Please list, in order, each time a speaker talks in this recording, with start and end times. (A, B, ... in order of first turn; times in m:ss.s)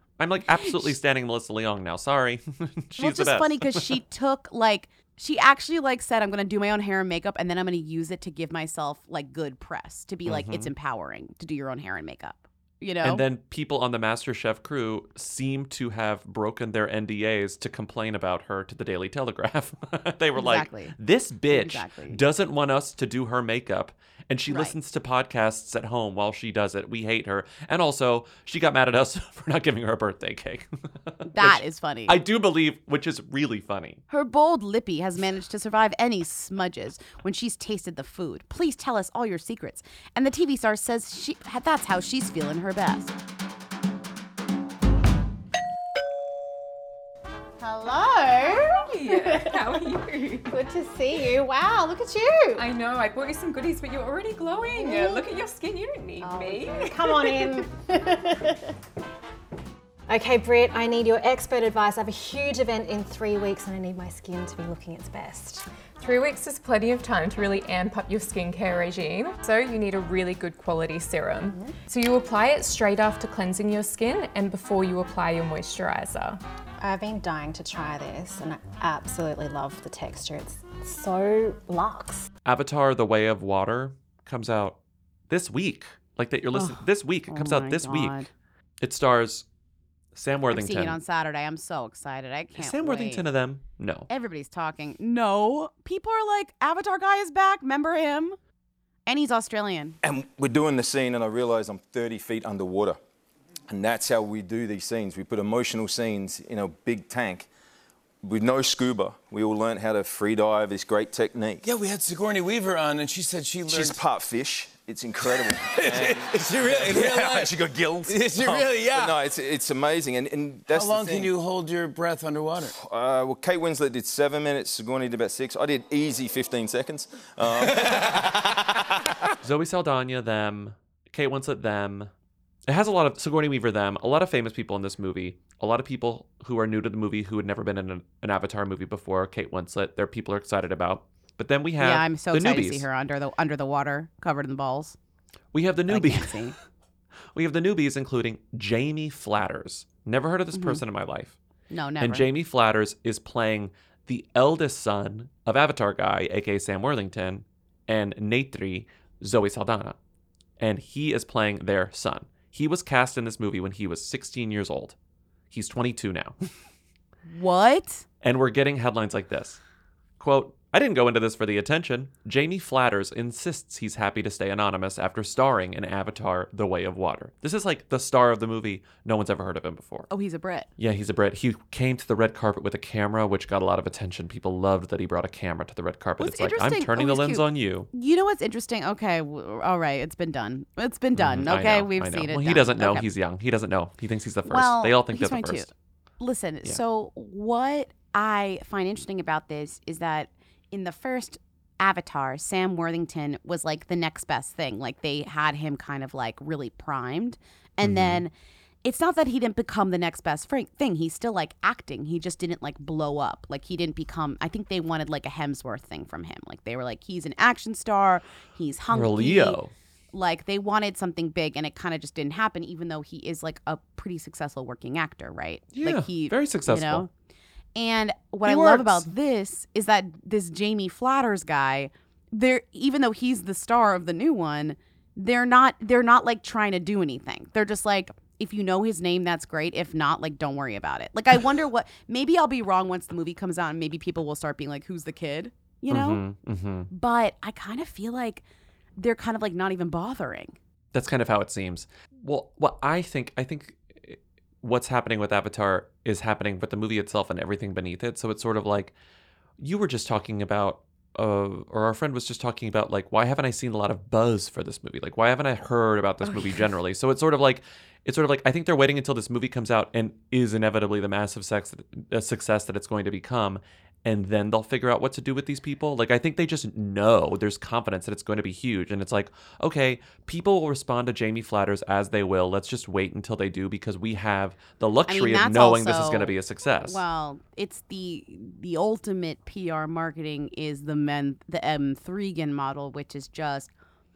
0:00.2-0:03.9 A
0:00.5-0:00.9 B
0:03.0-0:13.2 B
0:10.2-0:10.7 A
0:13.0-0:34.0 A
0:20.4-0:21.0 B
0:21.5-0:22.2 B
0:24.5-0:24.8 B
0:31.3-0:32.2 B
0:34.1-0:43.1 B
0:47.6-0:49.7 C
0:48.8-0:50.5 D
0:50.5-0:52.7 C
0:52.6-0:57.6 D
0:54.7-0:55.2 C
0:56.2-0:58.7 C
1:00.1-1:05.6 C
1:06.0-1:16.4 D
1:16.8-1:22.2 C
1:22.4-1:24.8 A
1:25.3-1:28.1 A
1:26.5-1:28.3 B
1:28.8-1:29.4 A
1:30.1-1:31.0 A
1:30.5-1:33.2 B
1:32.6-1:34.1 A
1:34.1-1:38.4 B
1:39.0-1:40.0 B
1:40.0-1:43.0 E
1:43.7-1:47.5 E
1:48.2-1:51.6 E
1:51.6-1:54.0 F
1:53.7-2:01.3 E
1:55.7-1:59.2 F
2:00.7-2:02.8 F
2:02.8-2:08.2 E
2:09.4-2:12.1 A
2:12.7-2:22.8 A
2:21.8-2:25.0 B
2:25.5-2:26.4 A
2:25.9-2:26.5 B
2:27.3-2:31.4 A
2:30.5-2:30.8 B
2:31.7-2:32.3 B
2:32.0-2:40.0 A
2:40.6-2:45.0 A
2:45.5-2:46.4 A
2:47.3-2:48.0 B
2:48.2-2:49.6 A
2:50.2-3:00.1 A
3:00.1-3:00.7 B
3:00.8-3:07.9 A
3:06.2-3:13.1 B
3:11.2-3:15.7 A
3:14.5-3:28.3 B
3:27.8-3:28.2 A
3:28.8-3:39.6 B
3:38.9-3:39.7 A
3:40.1-3:47.1 B
3:45.7-3:47.0 A
3:47.8-4:06.2 B
3:48.4-3:49.1 A
4:05.9-4:06.9 A
4:06.9-4:08.4 B
4:09.0-4:10.6 B
4:10.9-4:18.9 A
4:19.6-4:47.0 A
4:26.3-4:26.6 B
4:45.1-4:53.7 B